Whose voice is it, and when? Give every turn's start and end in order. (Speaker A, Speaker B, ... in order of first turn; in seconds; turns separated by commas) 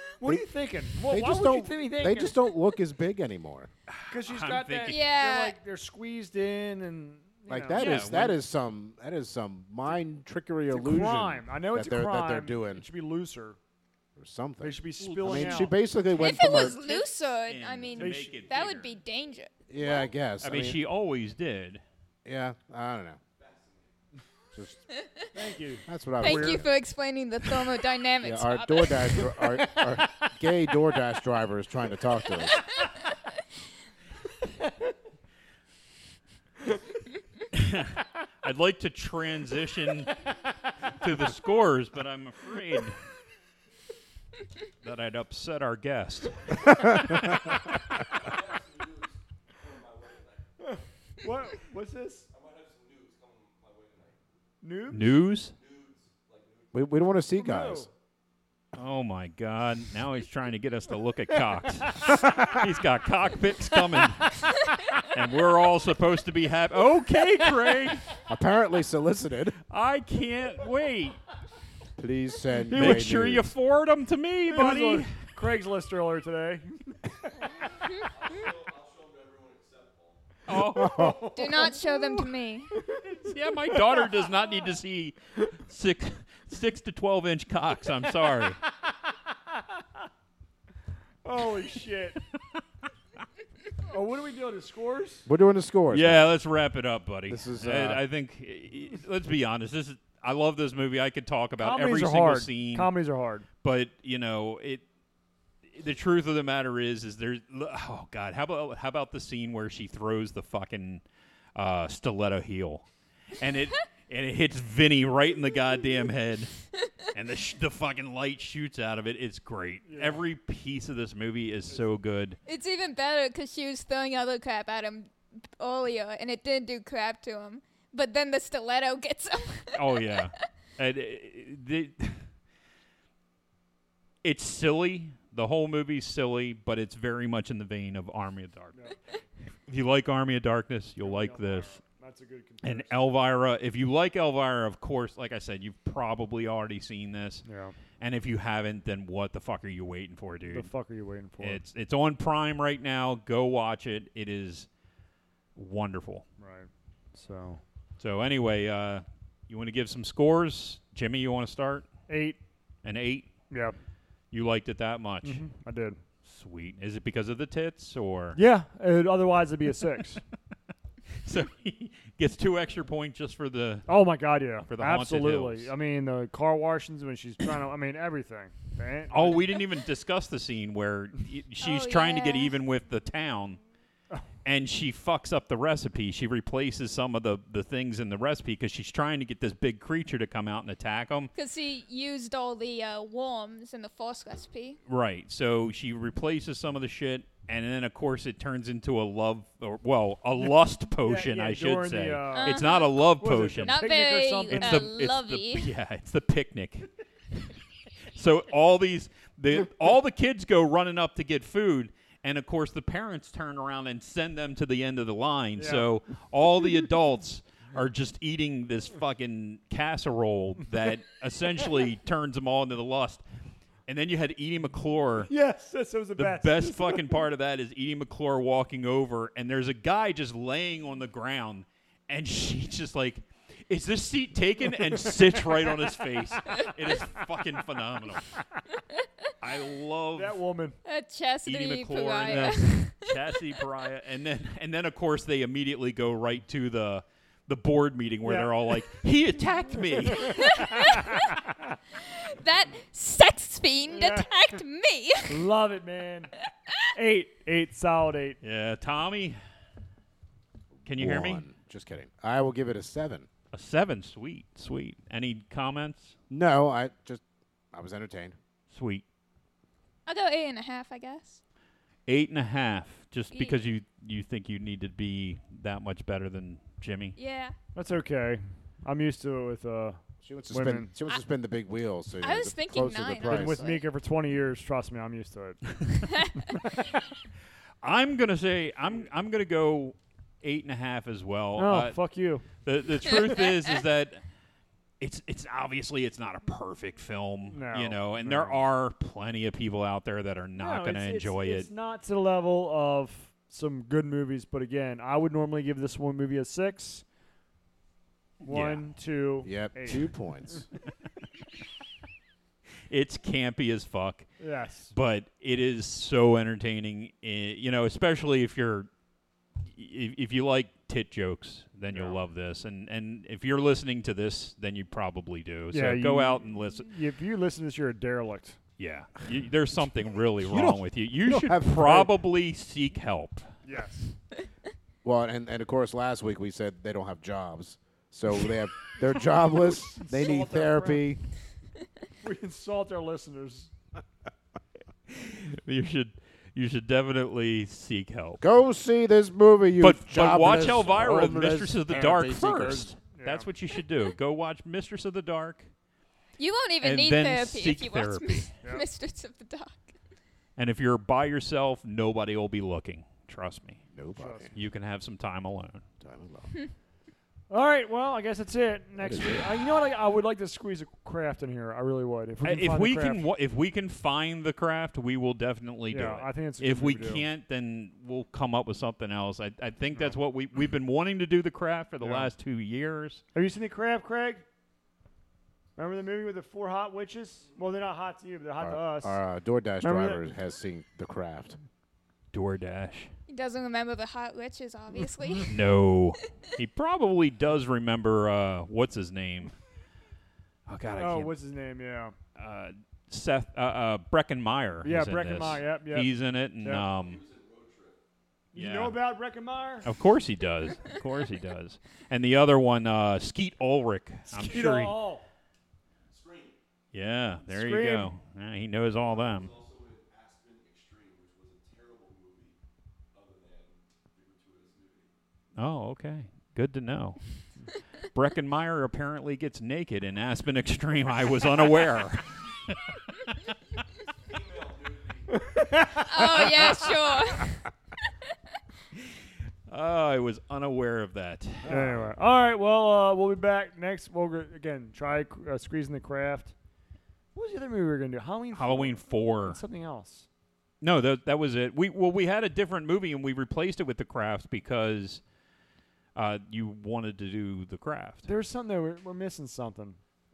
Speaker A: 0.2-2.3, Speaker B: 1.1-3.7, Speaker C: 3.9-5.0, Speaker A: 4.1-7.9, Speaker D: 4.9-5.5, Speaker B: 7.5-12.8, Speaker C: 7.7-8.4, Speaker A: 10.7-13.6, Speaker B: 14.2-16.8, Speaker A: 14.6-15.8, Speaker C: 15.0-18.9, Speaker D: 16.1-19.5, Speaker A: 17.9-18.4, Speaker B: 19.7-20.8, Speaker C: 20.4-21.8, Speaker B: 22.2-23.2, Speaker E: 23.4-23.9, Speaker A: 25.3-26.6, Speaker B: 25.9-26.7, Speaker D: 26.2-29.4, Speaker B: 28.2-32.7, Speaker A: 29.8-30.0, Speaker D: 32.5-32.9, Speaker C: 37.5-40.3, Speaker C: 40.8-43.0, Speaker C: 44.8-47.6, Speaker B: 46.7-47.0, Speaker E: 48.0-50.8, Speaker A: 50.6-52.3, Speaker E: 52.3-54.2, Speaker A: 54.6-55.2, Speaker C: 54.9-55.5, Speaker E: 55.5-56.8, Speaker B: 56.7-57.9, Speaker A: 57.4-57.9, Speaker C: 58.7-64.5, Speaker A: 63.7-64.6, Speaker C: 65.0-68.0, Speaker B: 68.2-69.6, Speaker C: 69.7-71.2, Speaker B: 72.0-73.5, Speaker A: 72.6-73.1, Speaker C: 72.7-75.2, Speaker A: 74.5-77.7, Speaker E: 78.1-80.2, Speaker C: 80.5-81.2, Speaker B: 80.7-81.3, Speaker A: 80.7-82.2, Speaker D: 81.3-82.8, Speaker C: 83.0-88.6, Speaker A: 83.7-84.2, Speaker A: 91.2-92.2, Speaker A: 93.9-95.3, Speaker B: 95.2-96.2, Speaker C: 95.9-102.9, Speaker B: 97.3-98.0, Speaker A: 101.6-103.5, Speaker C: 103.6-104.8, Speaker C: 105.7-111.0, Speaker C: 111.5-112.8, Speaker C: 113.4-116.5, Speaker C: 117.1-122.4, Speaker A: 119.8-120.2, Speaker D: 122.5-130.0, Speaker C: 129.7-132.2, Speaker C: 134.2-138.8, Speaker C: 139.7-141.7, Speaker A: 141.0-142.9, Speaker C: 142.6-147.4, Speaker A: 147.4-147.8, Speaker C: 148.0-150.7, Speaker A: 150.5-151.6, Speaker C: 151.4-154.7, Speaker C: 155.6-156.2, Speaker A: 156.4-157.6, Speaker C: 158.0-161.9, Speaker A: 162.1-162.4, Speaker C: 162.8-163.3, Speaker A: 163.5-163.8, Speaker C: 164.3-165.4, Speaker A: 165.2-166.0, Speaker C: 166.2-168.4, Speaker A: 168.3-170.2, Speaker C: 171.2-173.9, Speaker A: 173.9-179.5, Speaker C: 174.7-175.7, Speaker C: 179.1-183.6, Speaker D: 181.6-182.5, Speaker C: 184.4-191.3, Speaker D: 191.3-194.8, Speaker C: 194.9-203.8, Speaker A: 201.0-202.7, Speaker D: 202.3-203.1, Speaker A: 203.2-204.9, Speaker D: 203.6-205.7, Speaker C: 204.5-207.6, Speaker C: 208.1-223.2, Speaker A: 215.6-215.9, Speaker C: 223.9-225.3, Speaker A: 225.3-227.2, Speaker C: 226.2-238.3, Speaker A: 234.8-235.6, Speaker C: 239.4-240.3, Speaker A: 240.1-240.8, Speaker D: 240.8-243.1, Speaker C: 241.4-250.6, Speaker A: 248.2-248.5, Speaker A: 250.1-251.5, Speaker D: 250.3-251.2, Speaker D: 252.3-255.4, Speaker A: 253.9-254.2, Speaker A: 255.3-256.3, Speaker A: 256.9-258.4, Speaker C: 258.4-259.4, Speaker B: 260.8-263.3, Speaker C: 260.9-261.4, Speaker C: 263.5-266.1, Speaker B: 266.3-268.3, Speaker C: 268.7-269.0, Speaker D: 270.1-271.4, Speaker C: 272.1-277.1, Speaker D: 273.3-273.6, Speaker D: 277.1-277.6, Speaker A: 277.7-280.9, Speaker B: 280.2-283.6, Speaker D: 282.2-283.8, Speaker A: 283.2-285.6, Speaker C: 287.8-294.2, Speaker A: 291.6-292.5, Speaker D: 293.1-293.8, Speaker C: 295.0-301.7, Speaker A: 297.5-298.6, Speaker A: 300.6-307.0, Speaker C: 308.4-308.8, Speaker A: 308.4-310.1, Speaker B: 309.4-310.7, Speaker C: 312.9-314.3, Speaker A: 314.4-314.9, Speaker C: 314.9-318.9, Speaker C: 319.6-326.9, Speaker A: 321.9-322.2, Speaker A: 325.7-328.6, Speaker C: 328.8-333.5, Speaker B: 330.4-332.1, Speaker A: 333.6-334.1, Speaker B: 335.0-341.2, Speaker A: 339.9-341.0, Speaker A: 342.2-343.7, Speaker C: 345.1-348.4, Speaker B: 348.4-352.9, Speaker C: 349.8-355.7, Speaker A: 353.1-353.5, Speaker D: 356.4-359.9, Speaker C: 356.8-358.5, Speaker C: 360.6-363.8, Speaker B: 363.9-364.5, Speaker A: 364.1-364.5, Speaker C: 364.5-365.8, Speaker B: 366.0-366.5, Speaker A: 367.5-373.2, Speaker B: 369.0-369.5, Speaker C: 372.4-383.2, Speaker A: 375.9-377.2, Speaker A: 382.0-382.3, Speaker A: 383.3-384.4, Speaker A: 385.8-389.2, Speaker B: 388.6-391.6, Speaker A: 389.8-390.2, Speaker C: 392.3-393.1, Speaker D: 393.3-395.6, Speaker C: 395.4-399.5, Speaker C: 400.7-401.3, Speaker A: 400.9-402.1, Speaker C: 402.4-407.2, Speaker A: 404.8-406.9, Speaker E: 406.7-408.0, Speaker A: 408.5-409.9, Speaker C: 408.5-409.0, Speaker C: 409.8-415.0, Speaker A: 414.3-415.2, Speaker E: 416.1-416.6, Speaker C: 416.9-419.5, Speaker A: 417.5-418.1, Speaker E: 419.0-422.6, Speaker E: 423.1-425.1, Speaker C: 425.6-427.2, Speaker C: 428.1-433.0, Speaker E: 434.1-435.7, Speaker A: 435.3-436.8, Speaker D: 436.0-437.6, Speaker C: 439.7-441.7, Speaker B: 441.6-442.1, Speaker A: 441.6-446.5, Speaker A: 447.3-450.3, Speaker C: 448.5-449.6, Speaker C: 450.8-455.2, Speaker C: 456.1-458.3, Speaker A: 458.2-460.0